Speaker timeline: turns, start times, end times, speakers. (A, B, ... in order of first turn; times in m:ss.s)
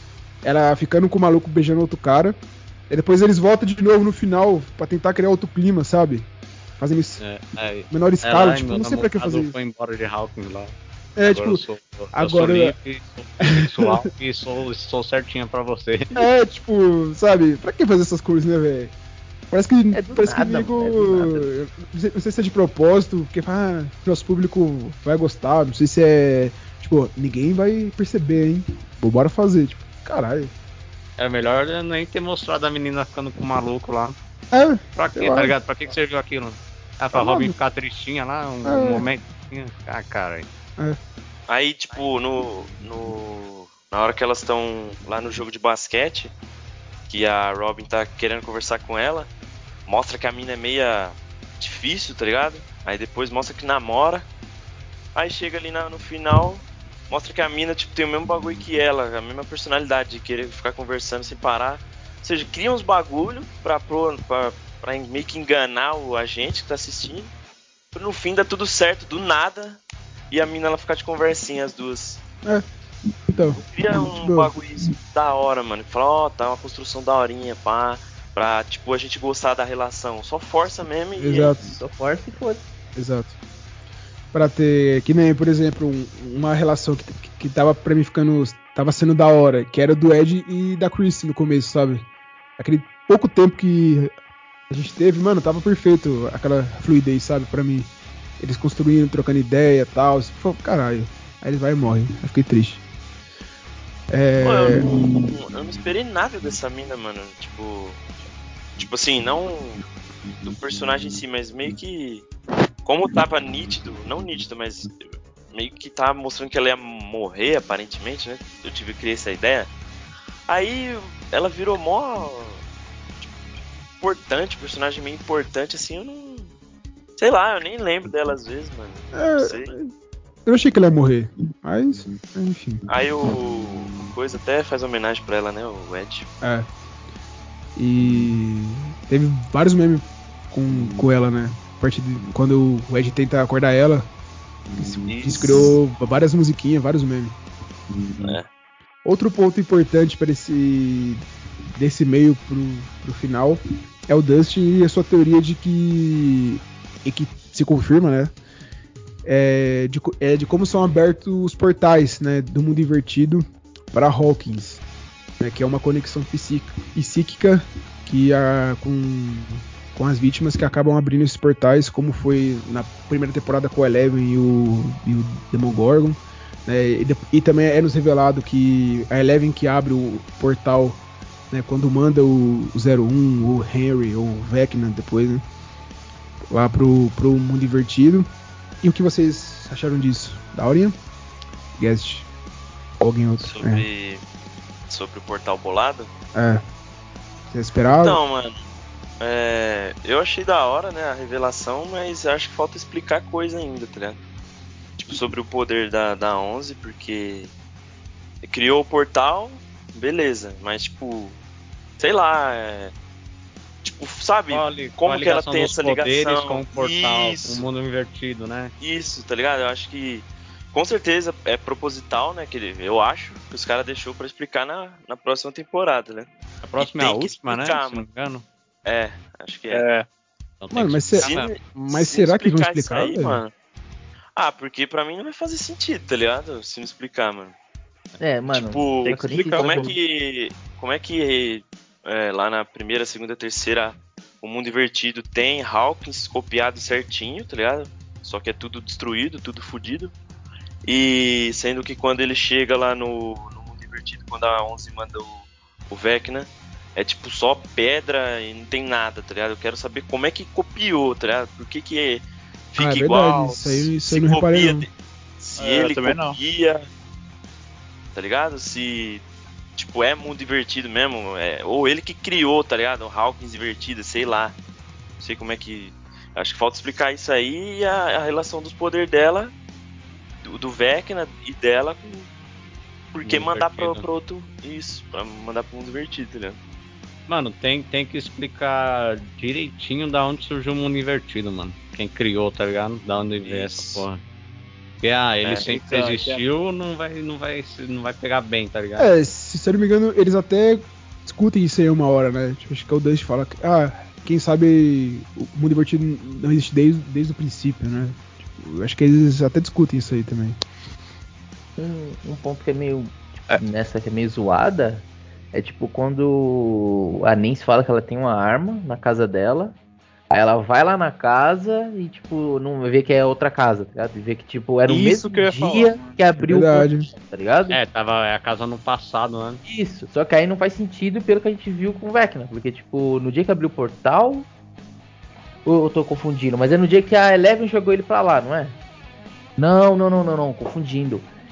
0:00.4-0:02.4 A
0:02.9-0:06.3 A
0:06.8-0:07.2 A
0:07.2-0:10.7 B
0:07.9-0:09.5 A
0:11.2-0:11.6 A
0:11.2-0:16.2 B
0:12.1-0:12.7 A
0:13.4-0:14.0 A
0:16.1-0:18.9 A
0:19.5-0:30.5 A
0:19.9-0:21.5 C
0:31.2-0:34.2 B
0:34.5-0:35.5 A
0:35.0-0:40.5 B
0:37.1-0:37.5 A
0:38.6-0:39.1 A
0:41.5-0:46.3 D
0:47.1-0:49.3 D
0:49.9-0:54.2 D
0:55.1-1:07.3 D
1:07.9-1:09.8 D
1:10.3-1:12.2 D
1:13.3-1:14.6 A
1:13.6-1:21.6 D
1:21.2-1:21.8 A
1:21.3-1:22.6 C
1:23.0-1:23.3 A
1:24.3-1:32.0 A
1:32.6-1:34.1 A
1:34.7-1:42.8 A
1:44.1-1:44.9 A
1:44.4-1:48.0 D
1:48.8-1:49.8 D
1:50.4-1:52.3 D
1:52.8-1:59.7 D
2:00.5-2:02.6 D
2:04.0-2:06.5 D
2:07.2-2:09.7 D
2:09.1-2:09.9 A
2:10.4-2:12.9 A
2:12.9-2:16.3 D
2:16.4-2:16.7 A
2:17.8-2:24.1 A
2:24.8-2:27.4 A
2:25.0-2:25.4 D
2:28.2-2:28.5 D
2:29.0-2:31.2 A
2:31.8-2:38.3 A
2:39.2-2:44.8 A
2:45.4-3:05.4 A
3:06.5-3:08.3 A
3:08.8-3:11.0 A
3:11.8-3:12.3 A
3:13.0-3:13.9 A
3:13.4-3:14.2 D
3:14.9-3:16.1 D
3:16.3-3:16.6 A
3:17.5-3:18.2 A
3:17.9-3:18.5 D
3:19.2-3:24.2 D
3:25.0-3:27.5 D
3:28.4-3:31.3 D
3:32.0-3:32.9 D
3:33.8-3:37.6 D
3:34.5-3:38.7 B
3:38.8-3:48.0 D
3:46.6-3:48.4 B
3:48.9-3:49.8 D
3:49.7-3:50.1 E
3:50.6-3:51.5 B
3:50.7-3:53.4 A
3:51.1-3:53.5 D
3:54.4-3:57.5 D
3:58.2-3:59.9 C
3:58.5-4:10.1 D
3:59.0-3:59.9 E
4:10.9-4:26.9 D
4:22.8-4:24.9 A
4:25.6-4:26.4 E
4:28.1-4:29.2 D
4:29.8-4:34.5 D
4:35.2-4:39.5 D
4:40.4-4:42.3 D
4:43.1-4:46.6 D
4:43.2-4:44.0 B
4:47.3-4:54.2 B
4:53.4-4:54.0 D
4:55.0-4:59.1 B
4:55.5-4:56.4 E
4:59.0-5:10.6 A
5:11.8-5:19.8 C
5:20.3-5:27.8 C
5:24.9-5:26.2 E
5:26.5-5:27.1 A
5:27.7-5:29.6 B
5:29.6-5:34.5 C
5:35.6-5:38.8 C
5:39.6-5:41.3 C